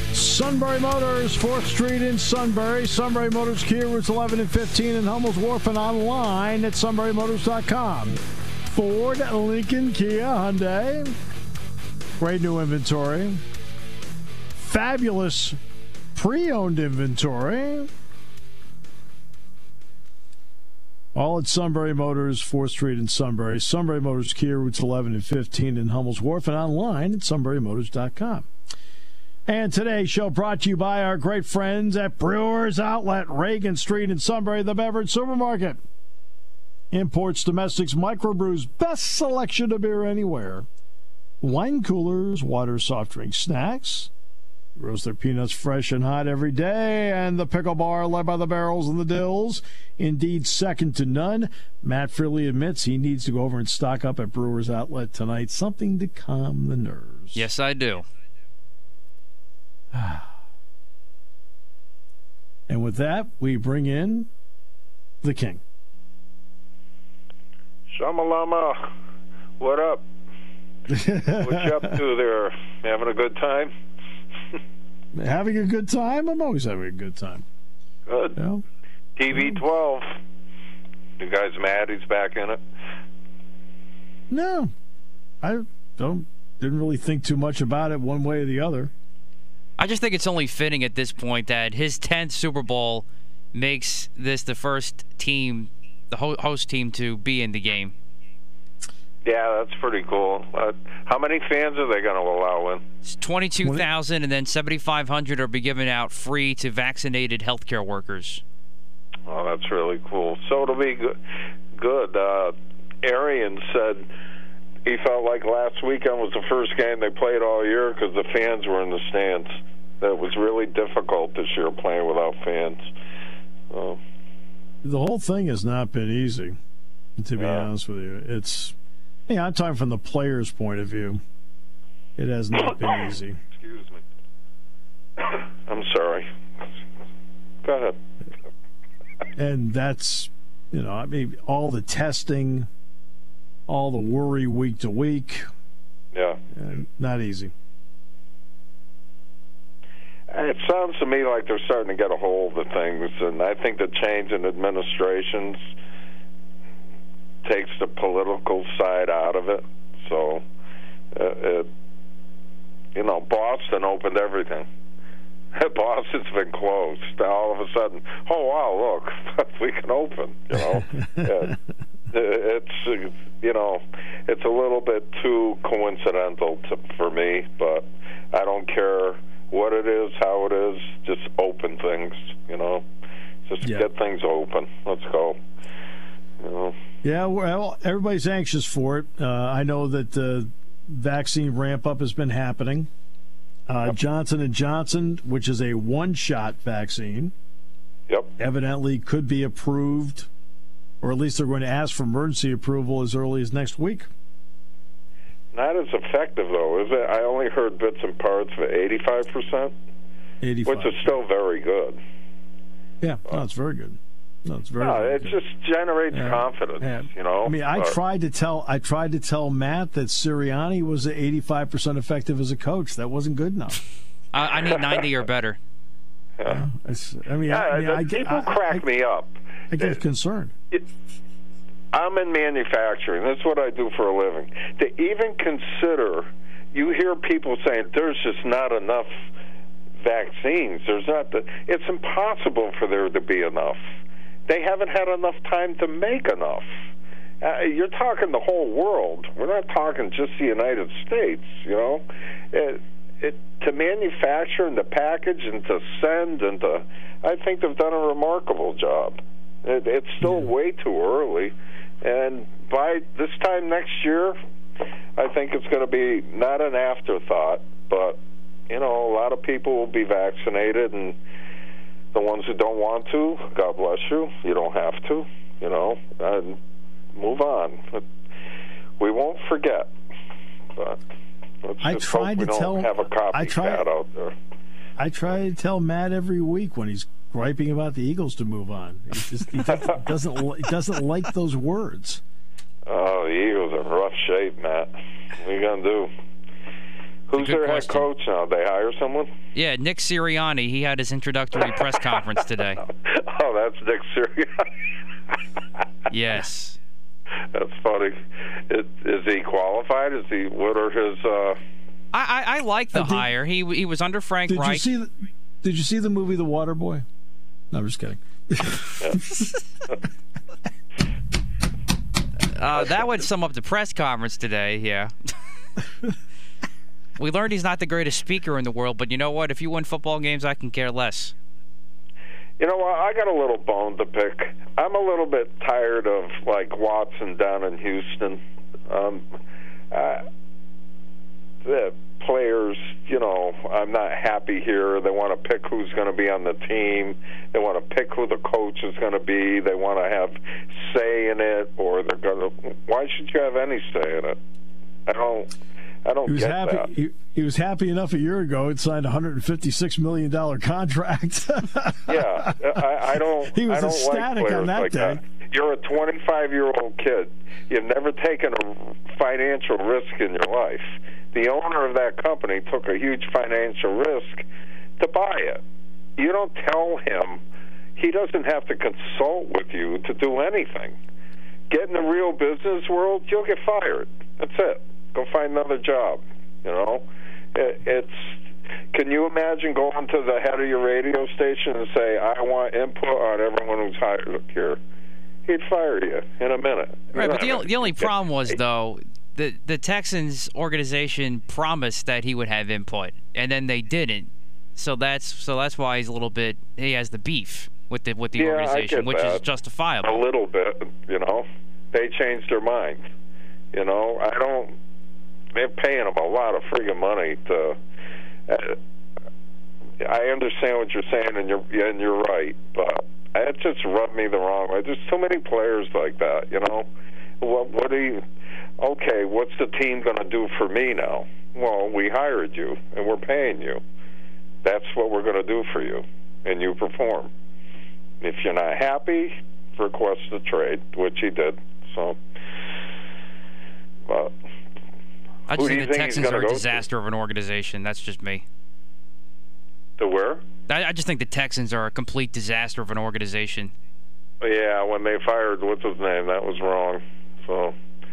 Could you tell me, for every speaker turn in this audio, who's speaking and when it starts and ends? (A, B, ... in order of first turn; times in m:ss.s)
0:00.1-0:11.1 A
0:12.2-0:13.4 A
0:14.5-0:15.6 A
0:16.1-0:17.9 A
0:21.1-0:28.5 A
0:29.4-0:35.8 A
0:36.9-0:40.6 A
0:41.4-0:44.1 A
0:44.8-0:57.4 A
0:57.3-0:58.0 B
0:59.9-1:00.3 A
1:02.7-1:04.3 A
1:05.2-1:05.6 A
1:07.9-1:08.8 C
1:09.6-1:10.0 C
1:10.9-1:12.0 A
1:11.4-1:13.7 C
1:15.1-1:17.4 A
1:18.1-1:18.4 C
1:18.4-1:18.6 A
1:19.2-1:20.1 C
1:19.3-1:19.6 A
1:21.2-1:22.6 C
1:24.3-1:24.7 A
1:25.4-1:28.9 A
1:29.8-1:37.9 B
1:39.2-1:42.8 C
1:43.0-1:48.4 B
1:43.6-1:43.9 A
1:49.3-1:51.2 C
1:51.8-1:54.1 C
1:54.8-2:02.8 C
2:03.7-2:04.0 C
2:04.8-2:06.6 A
2:07.2-2:08.7 A
2:07.4-2:07.7 C
2:09.3-2:11.2 A
2:12.2-2:13.4 A
2:13.6-2:14.0 C
2:15.2-2:16.3 C
2:17.6-2:18.0 C
2:19.4-2:22.7 A
2:23.7-2:25.5 A
2:26.5-2:27.5 A
2:30.3-2:35.6 C
2:37.4-2:40.4 C
2:41.1-2:41.7 C
2:42.9-2:44.7 C
2:45.5-2:51.6 C
2:50.5-2:51.5 A
2:52.1-3:02.8 C
3:03.4-3:05.4 C
3:03.6-3:03.9 A
3:06.4-3:06.8 C
3:07.0-3:12.9 A
3:13.7-3:17.3 A
3:18.4-3:20.3 A
3:21.0-3:24.1 A
3:25.5-3:29.7 C
3:30.4-3:31.0 A
3:30.6-3:32.0 C
3:33.0-3:35.4 A
3:34.8-3:38.0 C
3:36.1-3:43.8 A
3:44.3-3:45.6 B
3:46.4-3:48.8 A
3:47.5-3:50.0 C
3:49.7-3:50.5 A
3:51.9-3:59.1 C
4:00.0-4:03.8 C
4:04.5-4:06.7 C
4:07.4-4:24.4 C
4:25.2-4:31.2 C
4:32.1-4:36.6 C
4:37.1-4:38.0 C
4:39.0-4:39.9 C
4:40.8-4:41.0 C
4:41.6-4:44.3 C
4:41.8-4:43.9 A
4:45.0-4:52.2 A
4:52.9-4:56.1 C
4:57.3-4:59.3 C
4:57.4-4:58.0 B
4:59.5-5:02.8 B
5:03.0-5:04.7 C
5:06.1-5:06.8 B
5:07.5-5:11.6 C
5:12.1-5:14.9 B
5:12.9-5:13.3 A
5:14.5-5:15.1 A
5:15.6-5:17.0 A
5:17.7-5:19.4 A
5:22.5-5:25.1 B
5:22.8-5:23.0 C
5:27.2-5:31.3 B
5:32.6-5:39.2 C
5:39.9-5:40.2 C
5:41.6-5:54.4 C
5:55.1-5:55.5 C
5:56.0-5:56.9 C
5:56.2-6:02.8 A
6:02.1-6:14.4 C
6:03.5-6:05.2 A
6:15.0-6:15.6 C
6:16.2-6:17.4 C
6:18.0-6:21.0 C
6:21.7-6:28.3 C
6:28.9-6:34.8 C
6:35.5-6:38.5 C
6:37.1-6:50.2 B
6:48.3-6:49.4 C
6:50.0-6:53.1 C
6:53.7-6:54.7 C
6:55.5-6:57.8 C
6:58.5-6:58.8 C
7:00.0-7:06.9 C
7:07.4-7:08.2 C
7:08.8-7:13.8 C
7:14.6-7:17.3 C
7:18.2-7:22.2 C
7:24.1-7:24.3 C
7:25.5-7:28.4 B
7:25.5-7:26.8 C
7:30.0-7:30.4 C
7:30.7-7:33.7 B
7:34.4-7:37.7 C